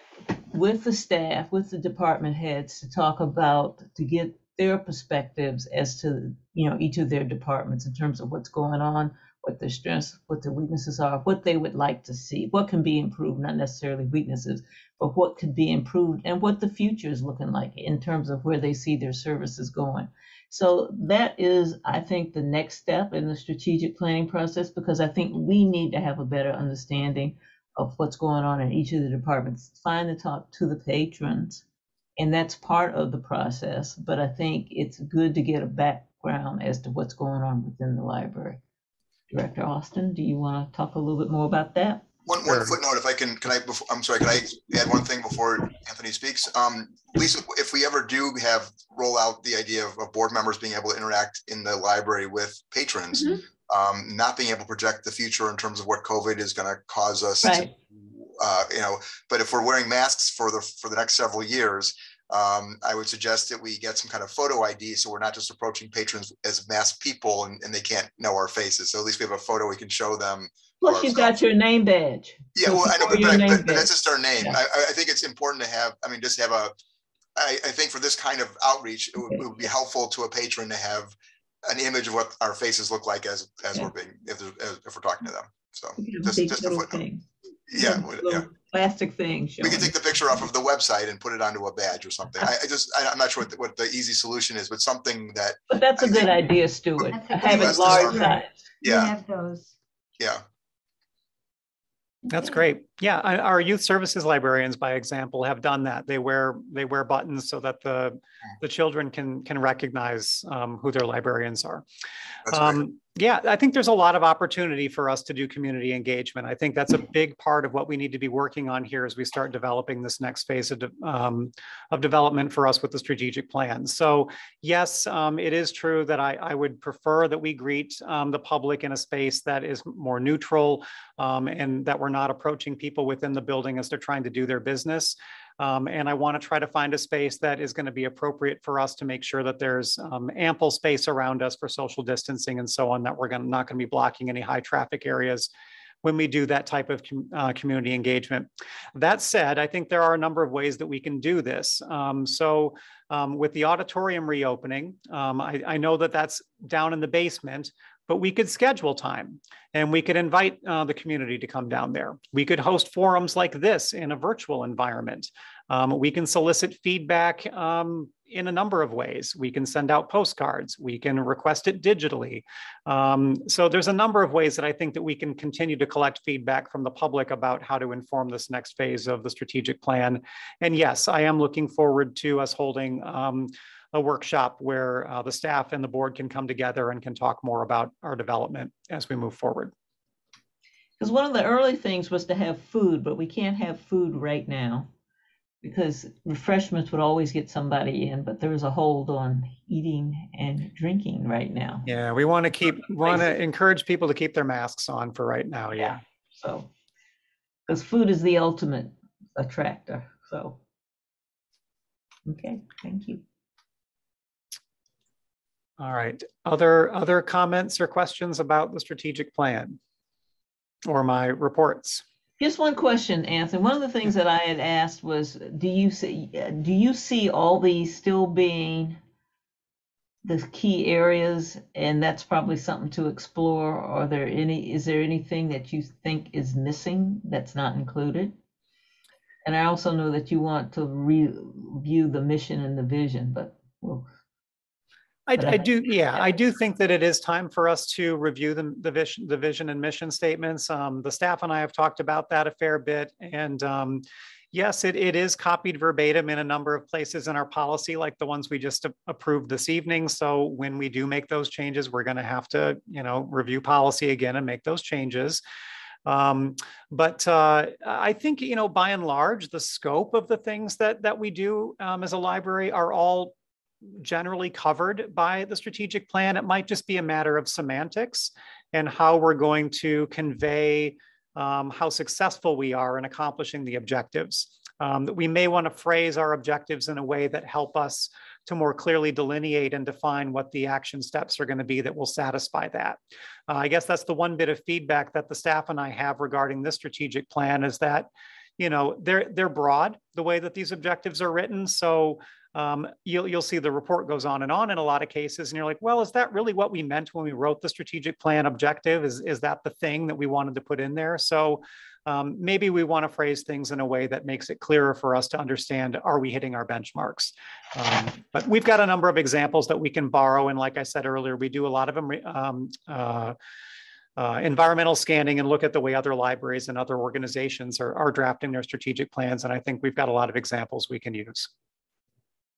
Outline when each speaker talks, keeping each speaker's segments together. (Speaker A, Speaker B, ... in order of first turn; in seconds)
Speaker A: 0.5-31.6, 32.2-38.6, 39.3-42.0, 57.4-57.7, 70.8-74.6, 86.0-87.2, 87.7-90.0, 95.7-98.7, 102.3-102.6, 191.0-194.9, 195.6-201.9, 202.8-203.3, 205.7-206.7, 207.7-210.6, 212.2-213.2, 222.4-229.0, 230.2-238.3, 239.4-244.1, 245.4-246.3
Speaker B: 42.2-71.4, 72.5-76.7, 77.3-87.0, 87.7-88.5, 89.6-96.3, 97.4-98.3, 98.8-99.1, 100.2-100.4
Speaker C: 42.4-42.8, 102.3-111.8, 112.5-145.5, 146.0-189.7, 201.8-206.0, 215.8-219.8, 220.8-222.0, 245.3-265.4, 266.0-323.4, 324.2-331.5
Speaker D: 97.1-99.7